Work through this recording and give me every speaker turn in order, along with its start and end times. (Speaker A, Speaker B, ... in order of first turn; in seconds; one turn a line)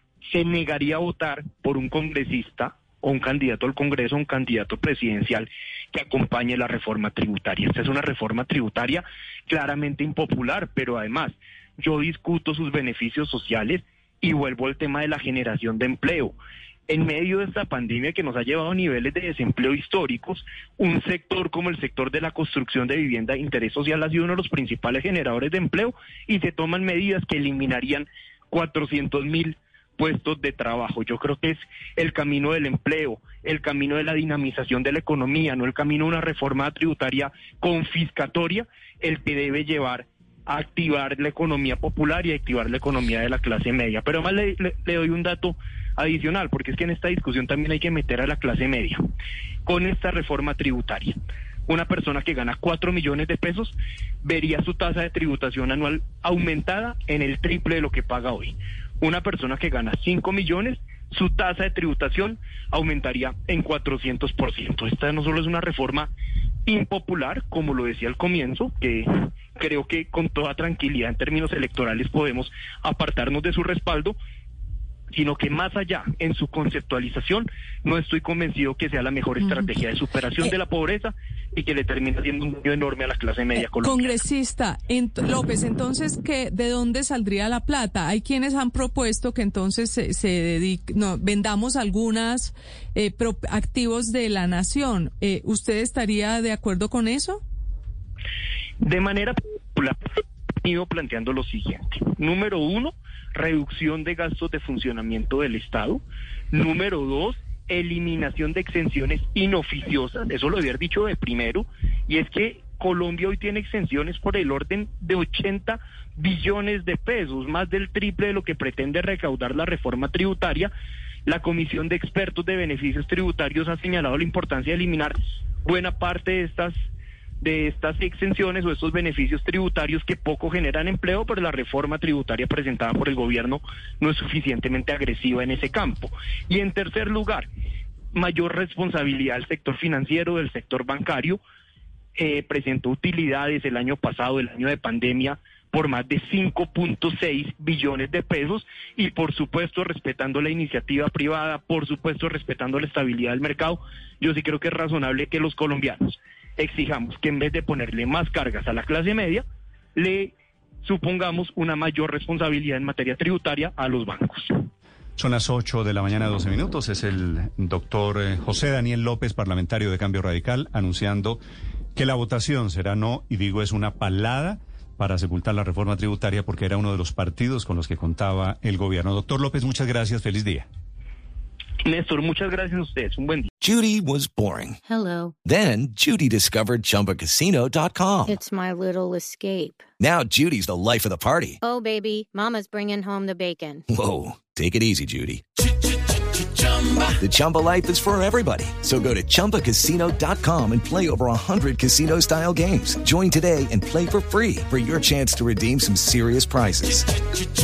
Speaker A: 0.2-16.3
Speaker A: 16.9-49.0
Speaker A: 49.6-51.1
Speaker A: 51.7-66.1
Speaker A: 66.7-74.1
Speaker A: 75.1-84.2
Speaker B: 83.8-97.4
Speaker A: 98.8-100.0
Speaker A: 100.6-106.0
Speaker A: 106.5-120.7
Speaker A: 121.3-126.7
Speaker A: 127.4-137.5
Speaker A: 138.1-141.4
Speaker A: 142.2-159.4
Speaker A: 159.9-160.3
Speaker A: 160.8-164.5
Speaker C: 165.2-171.4
Speaker C: 171.9-180.7
Speaker A: 181.8-183.5
Speaker D: 183.6-184.8
Speaker E: 184.8-185.3
Speaker D: 185.4-188.3
Speaker E: 188.2-189.8
Speaker D: 190.0-191.5
Speaker E: 191.6-193.8
Speaker D: 193.9-195.4
Speaker D: 197.2-207.0